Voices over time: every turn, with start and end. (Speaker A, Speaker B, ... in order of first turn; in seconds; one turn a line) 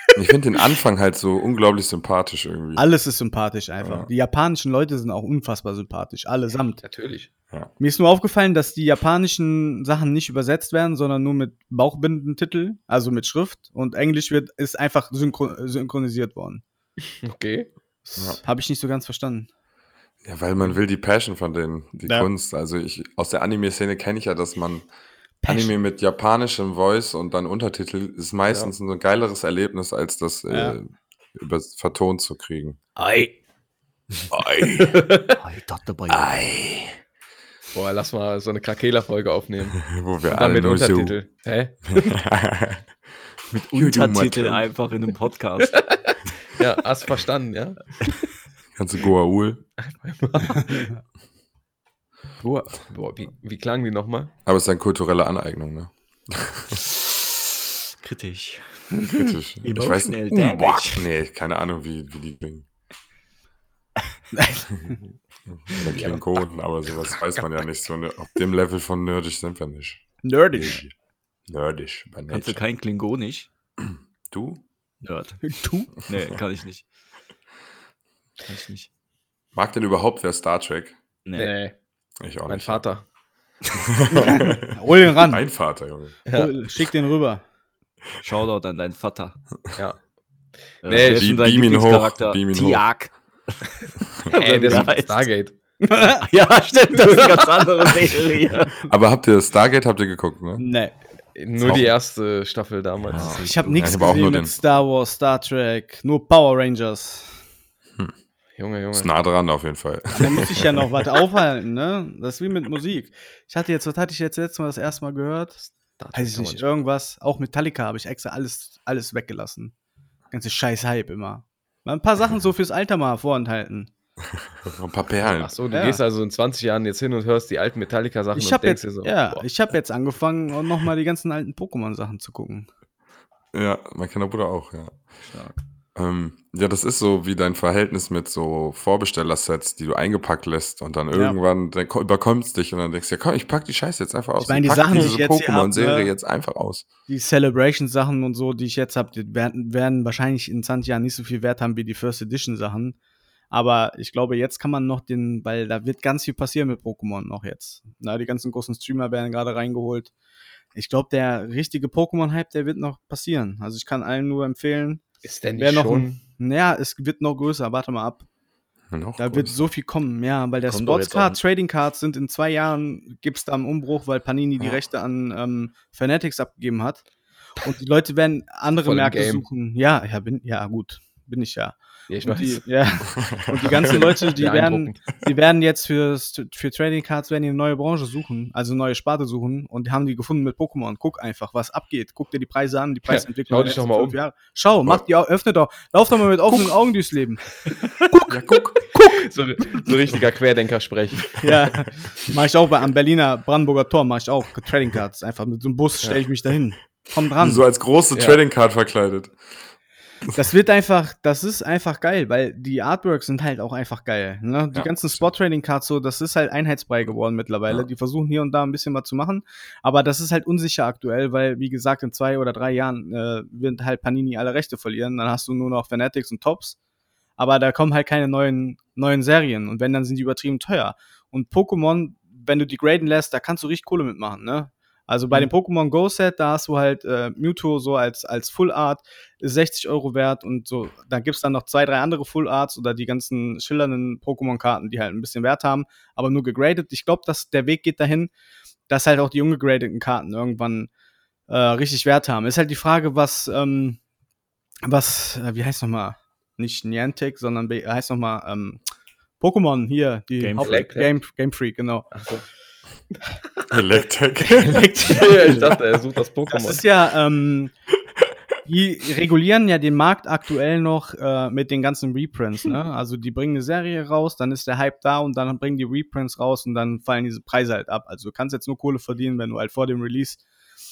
Speaker A: 0.1-2.9
Speaker B: 2.8-6.8
Speaker A: 3.8-4.1
Speaker C: 6.8-7.3
Speaker B: 7.8-16.6
Speaker C: 17.2-17.7
Speaker B: 18.1-19.5
Speaker A: 18.1-18.4
Speaker A: 20.2-24.9
Speaker B: 25.4-25.7
Speaker A: 25.4-32.8
Speaker B: 30.5-30.8
Speaker C: 33.0-33.3
Speaker C: 34.3-35.4
Speaker D: 35.3-36.4
Speaker C: 36.1-36.9
Speaker C: 37.7-42.2
Speaker A: 39.8-41.2
Speaker A: 41.9-42.9
Speaker D: 43.5-45.9
Speaker A: 43.7-44.7
Speaker C: 45.6-48.2
Speaker A: 48.7-49.6
Speaker C: 49.8-50.9
Speaker C: 52.4-54.3
Speaker A: 54.5-56.8
Speaker D: 58.0-58.9
Speaker A: 59.1-62.6
Speaker D: 59.6-61.1
Speaker B: 64.3-64.9
Speaker A: 65.5-70.9
Speaker C: 65.8-66.2
Speaker B: 70.2-70.8
Speaker A: 71.5-72.6
Speaker D: 72.3-73.5
Speaker A: 73.8-74.6
Speaker D: 75.0-76.8
Speaker B: 75.5-75.9
Speaker D: 78.4-78.9
Speaker A: 79.5-81.0
Speaker D: 81.2-81.5
Speaker C: 81.4-81.7
Speaker A: 82.2-82.8
Speaker C: 82.5-83.0
Speaker A: 83.7-86.2
Speaker B: 84.1-85.4
Speaker C: 86.3-86.5
Speaker B: 86.3-87.4
Speaker D: 88.2-89.4
Speaker C: 90.8-91.3
Speaker D: 90.8-95.3
Speaker A: 91.0-92.8
Speaker A: 94.2-94.8
Speaker C: 94.3-95.5
Speaker B: 95.8-96.2
Speaker D: 96.0-98.8
Speaker C: 97.0-98.0
Speaker A: 98.8-100.6
Speaker B: 100.6-100.9
Speaker C: 101.3-103.4
Speaker A: 101.6-101.9
Speaker D: 103.1-104.4
Speaker A: 103.1-104.5
Speaker B: 103.4-107.4
Speaker C: 108.5-109.1
Speaker A: 108.9-110.9
Speaker B: 110.1-119.7
Speaker C: 116.0-116.6
Speaker B: 120.3-123.9
Speaker A: 124.6-125.5
Speaker C: 125.2-129.4
Speaker B: 125.7-126.0
Speaker B: 128.3-132.7
Speaker A: 133.5-134.9
Speaker D: 135.2-135.6
Speaker A: 135.9-146.8
Speaker B: 141.1-141.4
Speaker B: 144.4-146.1
Speaker B: 147.1-152.9
Speaker B: 153.5-160.1
Speaker B: 160.7-168.2
Speaker C: 165.2-166.2
Speaker A: 168.9-169.6
Speaker B: 169.2-177.0
Speaker D: 170.7-171.4
Speaker B: 177.6-197.5
Speaker C: 178.8-179.4
Speaker C: 182.1-182.7
Speaker A: 183.2-184.0
Speaker C: 183.7-185.0
Speaker C: 193.1-194.2
Speaker A: 198.3-198.8
Speaker C: 199.0-201.4
Speaker B: 201.4-207.6
Speaker A: 207.4-209.4
Speaker C: 208.1-208.4
Speaker B: 210.3-226.8
Speaker A: 214.7-215.3
Speaker B: 227.4-248.3
Speaker B: 248.9-250.9
Speaker B: 251.5-254.0
Speaker B: 254.8-258.8
Speaker B: 259.4-262.1
Speaker D: 260.4-260.7
Speaker C: 260.6-261.1
Speaker C: 262.1-262.4
Speaker A: 263.7-264.9
Speaker B: 264.4-265.8
Speaker C: 265.1-266.8
Speaker B: 266.5-267.7
Speaker B: 268.6-280.4